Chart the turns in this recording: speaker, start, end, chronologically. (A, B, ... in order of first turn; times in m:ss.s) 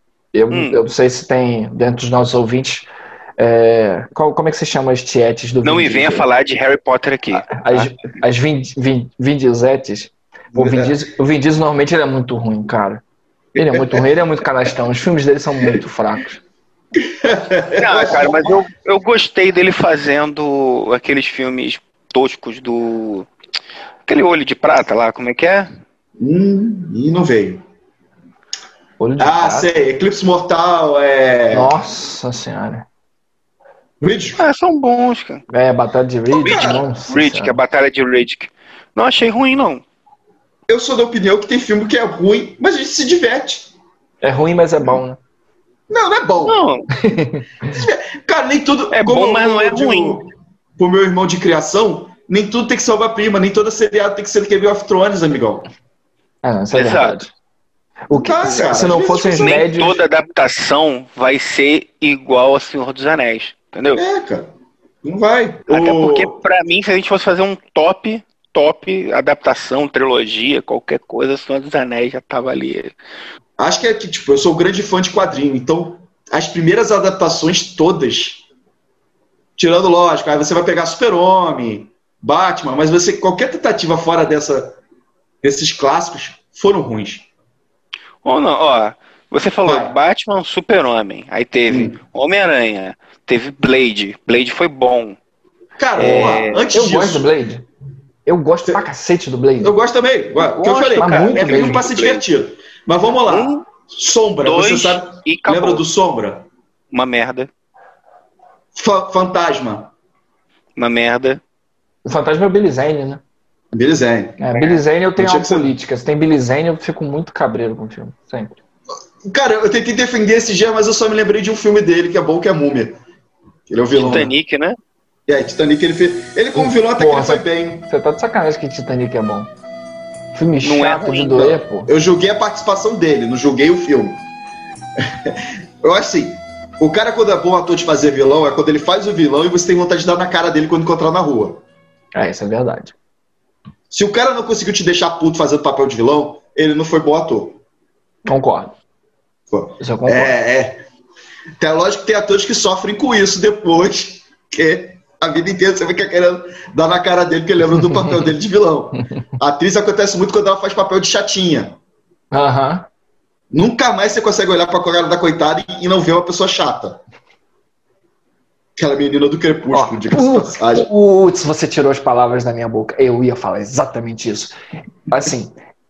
0:00.3-0:02.9 A
0:00.5-0:00.8 B
0:03.4-0:06.3 A
0:05.6-0:07.9 B
0:07.5-0:13.0 A
0:10.5-0:11.0 C
0:13.6-0:14.0 C
0:13.6-0:16.4 A
0:17.0-0:18.5 C
0:17.8-0:23.3 B
0:24.1-0:25.7 B
0:26.2-0:27.6 C
0:29.0-0:29.7 A
0:29.2-0:31.7 C
0:31.5-0:32.9 A
0:34.0-0:34.4 C
0:34.4-0:35.4 B
0:35.5-0:37.6 A
0:36.3-0:36.8 C
0:36.4-0:39.8 B
0:40.7-0:43.7 C
0:44.2-0:45.2 A
0:45.9-0:46.6 C
0:46.5-0:46.9 B
0:47.0-0:47.8 A
0:47.6-0:55.7 C
0:48.9-0:50.3 B
0:56.4-0:57.3 A
0:56.7-0:57.2 B
0:58.1-1:00.0 A
0:58.1-0:59.7 C
0:59.4-1:04.0 B
1:04.0-1:04.5 C
1:05.0-1:06.4 C
1:05.7-1:12.9 B
1:13.6-1:18.4 C
1:19.6-1:24.8 C
1:25.4-1:27.3 C
1:28.2-1:35.2 B
1:29.7-1:30.0 C
1:31.7-1:32.0 C
1:35.8-1:37.3 C
1:36.0-1:36.6 B
1:36.7-1:37.7 A
1:38.3-1:39.8 A
1:39.6-1:46.5 C
1:40.4-1:42.2 B
1:41.0-1:41.9 A
1:43.3-1:43.6 B
1:44.4-1:45.8 B
1:46.9-1:47.5 B
1:48.7-1:49.9 C
1:50.8-1:51.4 B
1:52.0-1:53.2 A
1:53.7-1:54.4 C
1:54.4-1:58.6 A
1:55.2-1:55.7 C
1:59.2-2:03.0 C
2:03.7-2:04.3 C
2:04.0-2:04.8 B
2:04.0-2:04.3 A
2:05.3-2:07.9 C
2:06.6-2:09.5 A
2:10.3-2:11.9 A
2:10.6-2:11.5 B
2:11.4-2:14.2 C
2:15.0-2:21.6 C
2:22.1-2:22.9 A
2:23.9-2:27.6 C
2:28.3-2:28.8 A
2:29.5-2:30.8 C
2:29.8-2:30.4 A
2:31.6-2:41.8 C
2:37.8-2:38.3 A
2:42.3-2:42.9 A
2:43.5-2:47.0 C
2:48.8-2:50.9 C
2:49.7-2:54.5 A
2:55.1-2:55.5 A